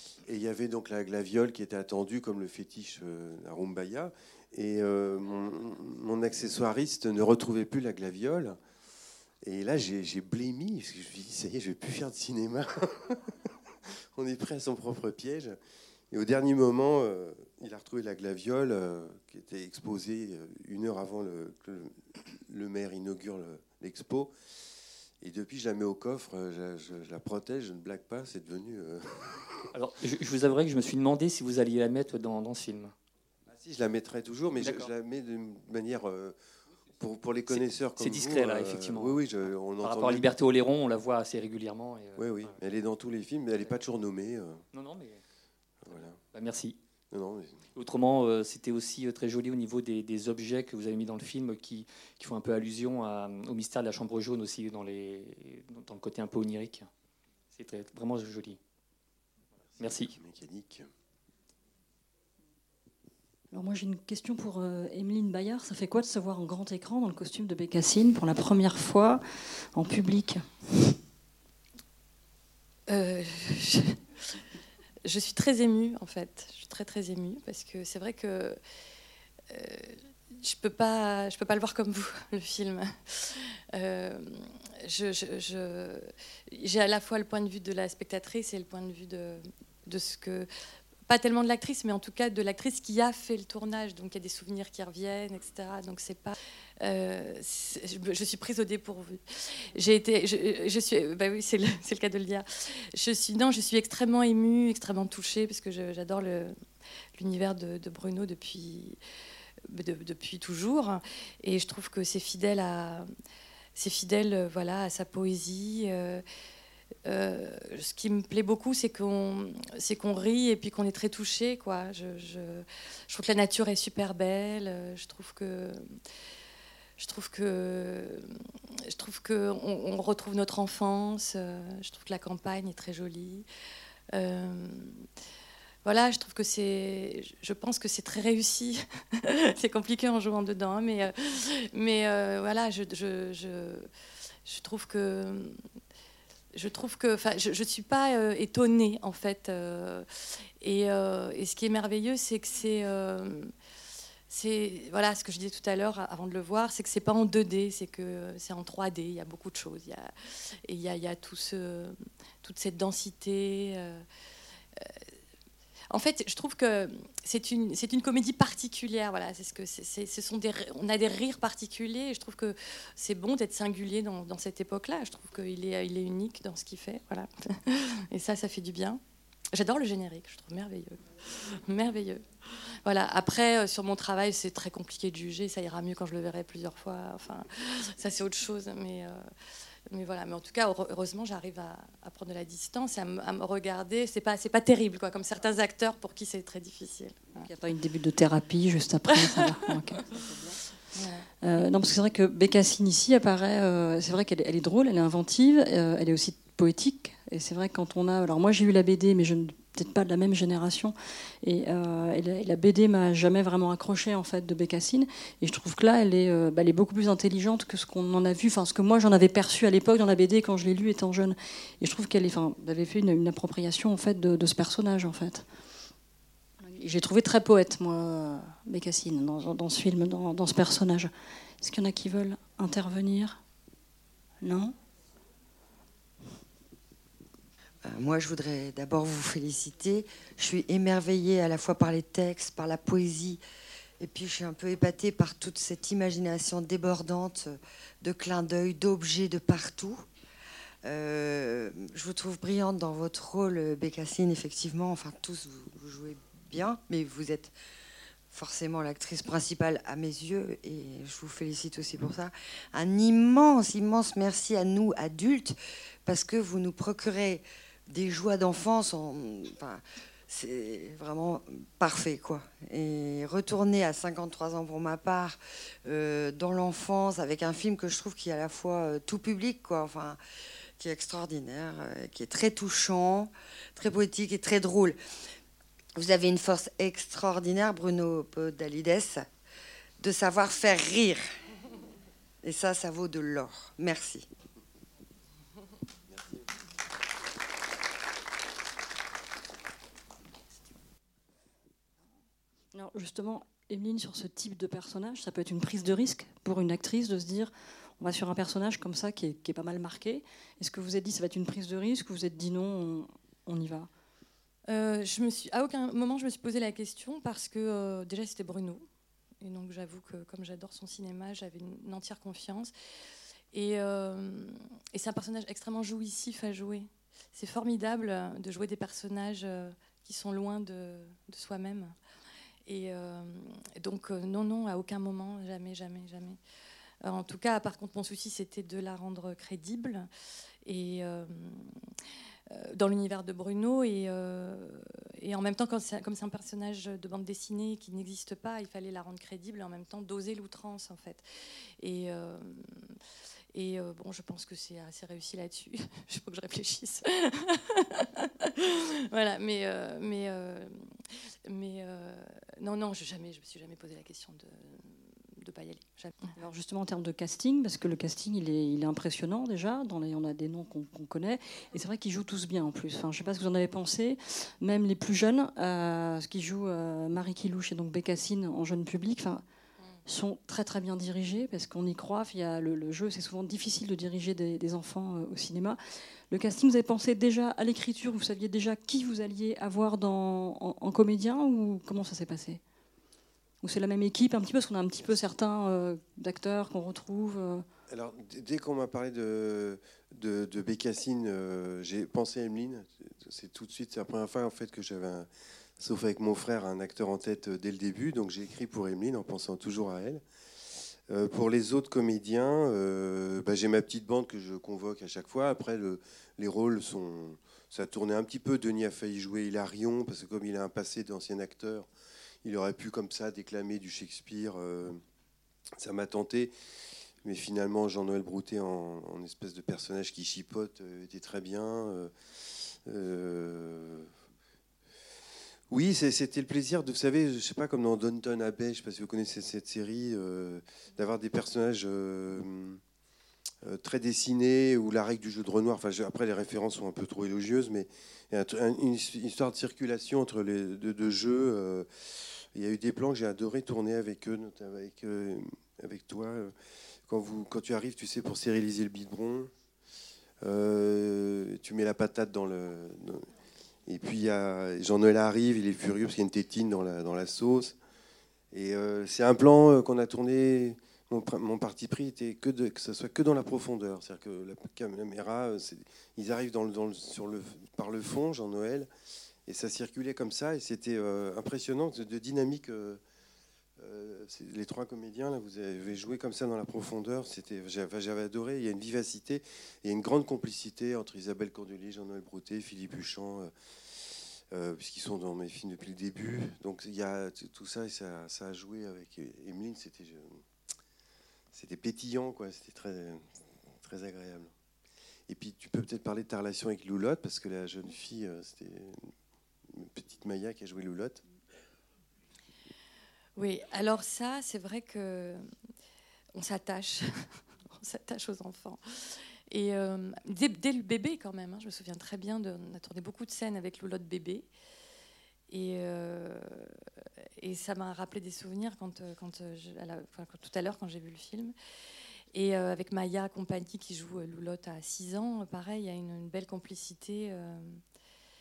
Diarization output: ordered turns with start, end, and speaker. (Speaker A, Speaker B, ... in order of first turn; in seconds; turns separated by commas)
Speaker A: 0.2-8.6, Speaker A: 9.4-15.6, Speaker A: 16.1-24.3, Speaker A: 25.2-29.7, Speaker B: 29.7-32.9, Speaker A: 33.5-36.4, Speaker B: 34.6-34.9, Speaker A: 37.0-40.3, Speaker B: 37.5-39.2, Speaker B: 39.8-42.6, Speaker A: 42.1-44.6, Speaker B: 44.7-45.2, Speaker A: 45.9-46.2, Speaker B: 45.9-46.8, Speaker A: 47.1-47.6, Speaker B: 47.8-56.9, Speaker B: 57.5-58.6, Speaker A: 59.7-60.9, Speaker B: 59.8-60.1, Speaker C: 63.5-69.2, Speaker C: 69.7-70.4, Speaker D: 72.9-74.4, Speaker D: 75.0-78.6, Speaker D: 79.5-90.5, Speaker D: 91.0-106.5, Speaker D: 107.1-109.0, Speaker D: 109.7-113.1, Speaker D: 113.7-116.2, Speaker D: 117.0-126.0, Speaker D: 127.0-133.4, Speaker D: 134.1-135.1, Speaker D: 135.8-143.9, Speaker D: 144.4-145.6, Speaker D: 146.5-150.1, Speaker D: 150.6-153.5, Speaker D: 154.3-164.1, Speaker D: 165.9-179.0, Speaker D: 179.5-189.3, Speaker D: 189.9-197.4, Speaker C: 197.4-200.6, Speaker D: 200.9-201.2, Speaker C: 201.4-225.4, Speaker C: 226.7-233.4, Speaker C: 234.4-234.7, Speaker E: 237.8-243.4, Speaker E: 244.0-250.0, Speaker E: 250.8-257.5, Speaker E: 258.3-280.2, Speaker E: 280.8-285.0, Speaker E: 285.9-289.3, Speaker E: 290.0-291.2, Speaker E: 292.4-294.3, Speaker C: 302.7-313.9, Speaker D: 314.7-318.9, Speaker D: 319.4-322.7, Speaker D: 323.5-331.9, Speaker D: 332.6-336.4, Speaker D: 337.0-340.1, Speaker D: 340.6-341.9, Speaker D: 342.5-351.2, Speaker D: 351.8-352.9, Speaker D: 353.5-366.3, Speaker C: 366.3-379.4, Speaker C: 380.1-385.8, Speaker C: 386.3-392.6, Speaker C: 393.6-397.6, Speaker A: 397.9-410.2, Speaker A: 411.1-421.9, Speaker A: 422.4-425.0, Speaker A: 425.8-426.5, Speaker A: 427.2-434.1, Speaker A: 435.7-442.8, Speaker A: 443.6-456.5, Speaker A: 457.1-459.5, Speaker A: 460.4-463.3, Speaker A: 463.9-467.8, Speaker A: 468.5-478.9, Speaker A: 479.4-483.0, Speaker A: 483.8-500.4, Speaker A: 501.5-503.2, Speaker A: 503.8-504.5, Speaker A: 505.3-509.1, Speaker A: 509.7-511.2, Speaker D: 513.4-515.5, Speaker D: 516.3-524.5, Speaker D: 525.5-526.8, Speaker D: 527.4-531.5, Speaker D: 532.3-537.8